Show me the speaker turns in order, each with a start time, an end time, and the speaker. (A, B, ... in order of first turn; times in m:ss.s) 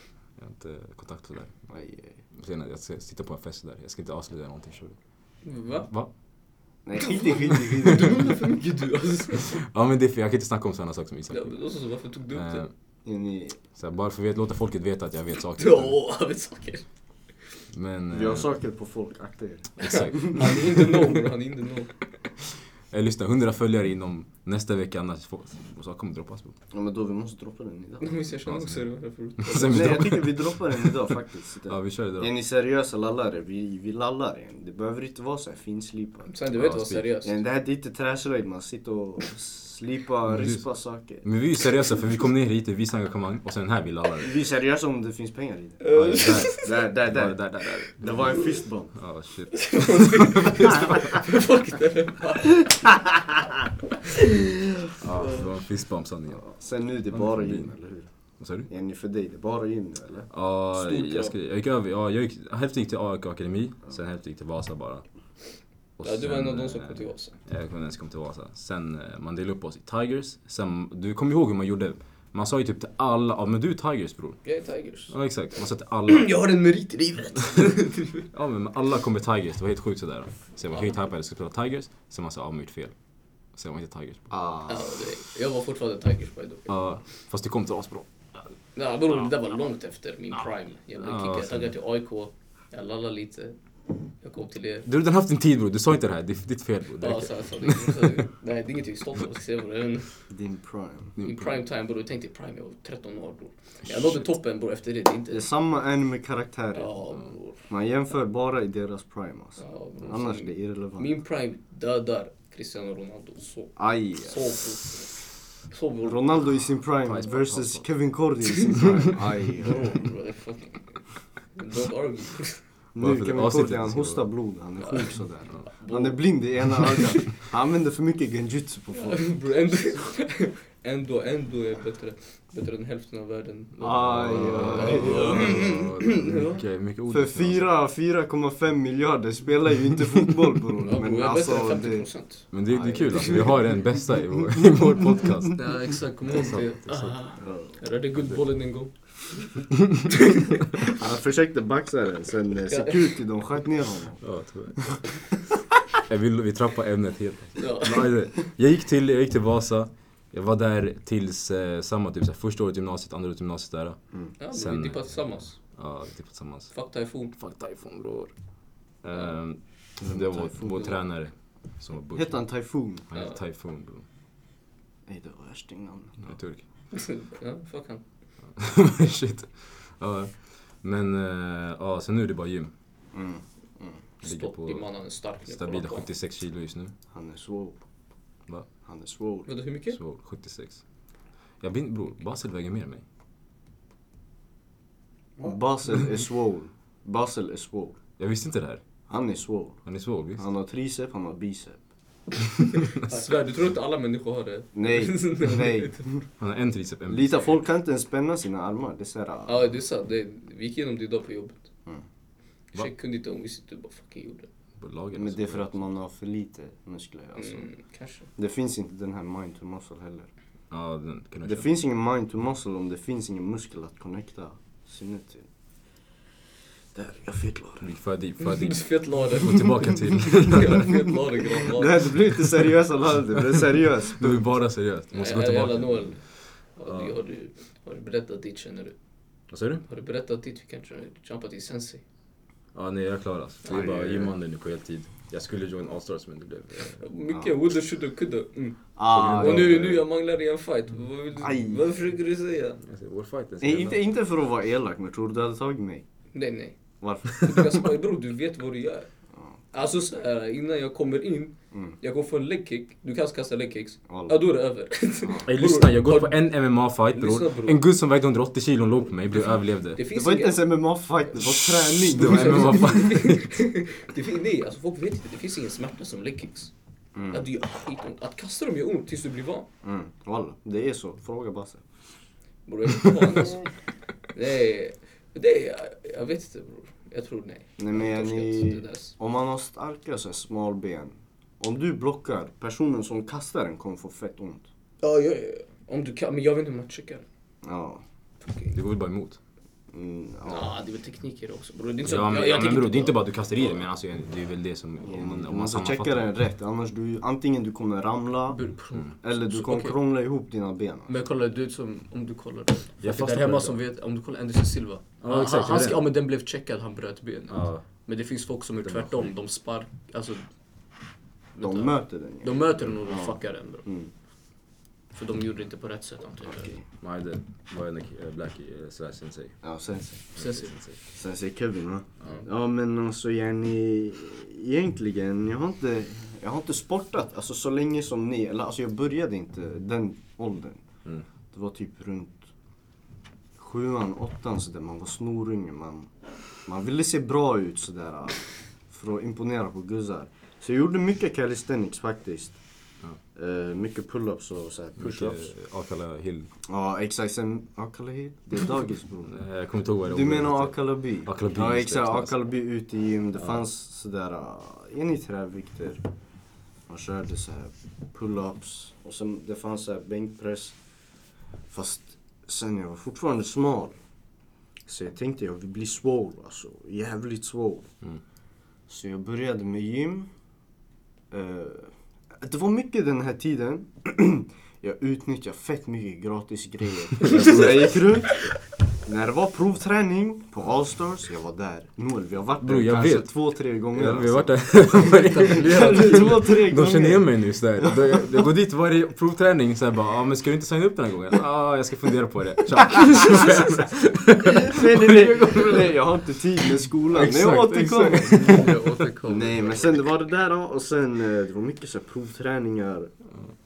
0:00.4-0:01.5 A
0:01.7-0:02.2 B
0:02.3-0:05.0 A
0:05.4-0:05.9 C
0:06.8-0:08.2 B
0:07.0-0:09.6 C
0:09.5-0:11.6 A
0:11.3-0:12.7 C
0:12.3-0:12.7 A
0:13.0-0:13.6 B
0:13.7-0:16.0 A
0:15.6-0:16.8 C
0:17.7-0:18.5 A
0:18.1-0:20.4 B
0:19.8-0:22.0 C
0:19.8-0:21.1 A
0:22.9-0:26.5 A
0:26.7-0:28.2 B
0:28.0-0:30.2 C
0:28.4-0:28.8 A
0:29.4-0:31.0 A
0:29.7-0:36.3 B
0:31.7-0:32.3 A
0:36.3-0:37.3 C
0:36.5-0:37.1 A
0:37.2-0:41.2 B
0:40.3-0:40.6 A
0:41.2-0:44.3 A
0:44.2-0:45.8 B
0:45.8-0:46.8 C
0:45.9-0:51.0 A
0:46.5-0:48.9 B
0:49.5-0:53.1 C
0:55.0-0:56.5 A
0:55.2-0:55.4 C
0:56.4-0:58.1 B
0:57.1-0:57.7 A
0:58.4-0:58.7 A
0:58.7-1:00.3 B
1:00.3-1:05.0 A
1:00.7-1:01.3 C
1:06.0-1:14.4 A
1:06.0-1:07.4 C
1:14.4-1:15.1 C
1:15.1-1:16.4 A
1:16.0-1:18.2 C
1:18.3-1:22.9 A
1:23.5-1:24.3 A
1:24.3-1:24.9 B
1:24.7-1:26.8 C
1:26.7-1:28.1 A
1:28.7-1:33.6 C
1:31.0-1:31.7 A
1:34.2-1:34.8 C
1:34.8-1:38.2 A
1:37.0-1:40.2 C
1:40.3-1:41.1 B
1:41.2-1:41.6 A
1:41.2-1:45.5 C
1:45.3-1:46.9 B
1:46.7-1:47.6 C
1:47.7-1:51.1 B
1:49.6-1:56.2 C
1:53.8-1:54.6 B
1:56.0-2:00.0 B
1:57.0-1:57.9 A
1:59.6-2:02.6 C
2:02.9-2:09.3 B
2:03.0-2:04.2 A
2:04.8-2:05.1 C
2:05.7-2:07.2 C
2:08.9-2:16.6 C
2:13.8-2:15.6 B
2:14.0-2:17.7 A
2:17.1-2:22.1 B
2:20.8-2:22.6 C
2:22.5-2:25.7 A
2:22.6-2:23.5 B
2:23.1-2:23.5 C
2:25.6-2:29.5 C
2:26.2-2:27.2 A
2:27.4-2:27.8 B
2:30.1-2:30.8 C
2:30.9-2:34.2 B
2:32.7-2:33.2 C
2:34.2-2:35.2 A
2:36.1-2:44.0 A
2:37.6-2:38.2 C
2:44.4-2:45.6 C
2:44.5-2:46.7 A
2:46.7-2:47.3 C
2:47.3-2:48.3 A
2:49.0-2:52.4 A
2:50.0-2:51.0 B
2:52.1-2:53.0 B
2:53.1-2:54.0 A
2:55.1-2:56.3 B
2:56.2-2:56.6 A
2:56.9-2:58.0 C
2:58.5-3:02.7 A
3:03.1-3:04.0 B
3:04.2-3:06.1 C
3:04.2-3:04.9 A
3:05.4-3:06.9 A
3:07.1-3:07.8 B
3:08.8-3:09.5 B
3:09.4-3:10.0 C
3:09.9-3:10.8 A
3:11.6-3:13.0 A
3:15.4-3:18.0 B
3:18.2-3:18.8 A
3:19.1-3:19.8 B
3:19.8-3:20.4 A
3:20.4-3:21.8 B
3:22.9-3:26.0 C
3:24.7-3:26.2 B
3:26.4-3:27.6 A
3:27.1-3:29.6 B
3:29.5-3:31.6 C
3:32.7-3:34.5 C
3:34.8-3:35.7 A
3:35.1-3:37.7 B
3:37.4-3:38.3 C
3:38.4-3:40.3 B
3:40.7-3:41.7 A
3:41.4-3:45.4 B
3:46.9-3:47.9 B
3:47.8-3:51.0 A
3:48.4-3:52.1 C
3:51.6-3:54.4 B
3:54.2-3:56.2 A
3:55.1-3:58.9 C
3:56.8-3:57.1 A
3:59.5-3:59.8 A
3:59.9-4:02.0 C
4:02.7-4:07.0 A
4:03.7-4:04.3 B
4:07.0-4:12.8 C
4:09.0-4:10.0 B
4:09.1-4:10.0 A
4:11.4-4:11.8 B
4:12.8-4:14.0 A
4:13.6-4:16.0 B
4:16.3-4:19.1 C
4:17.0-4:17.6 B
4:19.7-4:27.8 C
4:24.1-4:24.4 B
4:25.4-4:30.0 A
4:29.9-4:30.7 C
4:30.1-4:32.9 B
4:31.4-4:33.5 A
4:32.1-4:36.7 C
4:37.1-4:37.4 B
4:37.3-4:39.7 C
4:39.8-4:41.8 B
4:42.6-4:49.1 C
4:47.8-4:54.6 B
4:55.0-4:57.2 C
4:57.6-4:58.0 B
4:58.4-4:58.8 C
4:58.7-4:59.4 A
4:59.9-5:00.7 B
5:00.5-5:03.8 C
5:02.0-5:06.3 A
5:05.0-5:08.6 B
5:08.5-5:10.0 C
5:09.2-5:11.1 B
5:11.1-5:20.4 C
5:13.0-5:13.8 A
5:15.2-5:16.1 A
5:17.5-5:17.8 A
5:18.8-5:19.3 A
5:21.6-5:23.8 C
5:21.6-5:24.1 B
5:25.1-5:26.7 C
5:26.4-5:26.8 B
5:27.0-5:29.6 A
5:29.6-5:30.4 B
5:30.4-5:31.0 A
5:30.4-5:30.7 C
5:31.1-5:40.8 B
5:41.5-5:42.5 B
5:43.6-5:46.1 B
5:46.6-5:52.6 B
5:53.3-5:55.5 B
5:55.0-5:56.5 A
5:56.7-5:59.4 B
5:59.3-6:02.3 A
6:00.1-6:06.0 B
6:06.9-6:10.7 B
6:11.7-6:14.0 B
6:14.9-6:17.9 B
6:18.9-6:20.3 B
6:21.3-6:28.5 B
6:27.2-6:28.0 A
6:29.0-6:37.9 B
6:32.6-6:33.3 A
6:33.9-6:45.9 A
6:35.1-6:36.2 C
6:44.6-6:48.7 B
6:47.1-6:49.2 A
6:48.1-6:49.9 C
6:49.2-6:53.1 B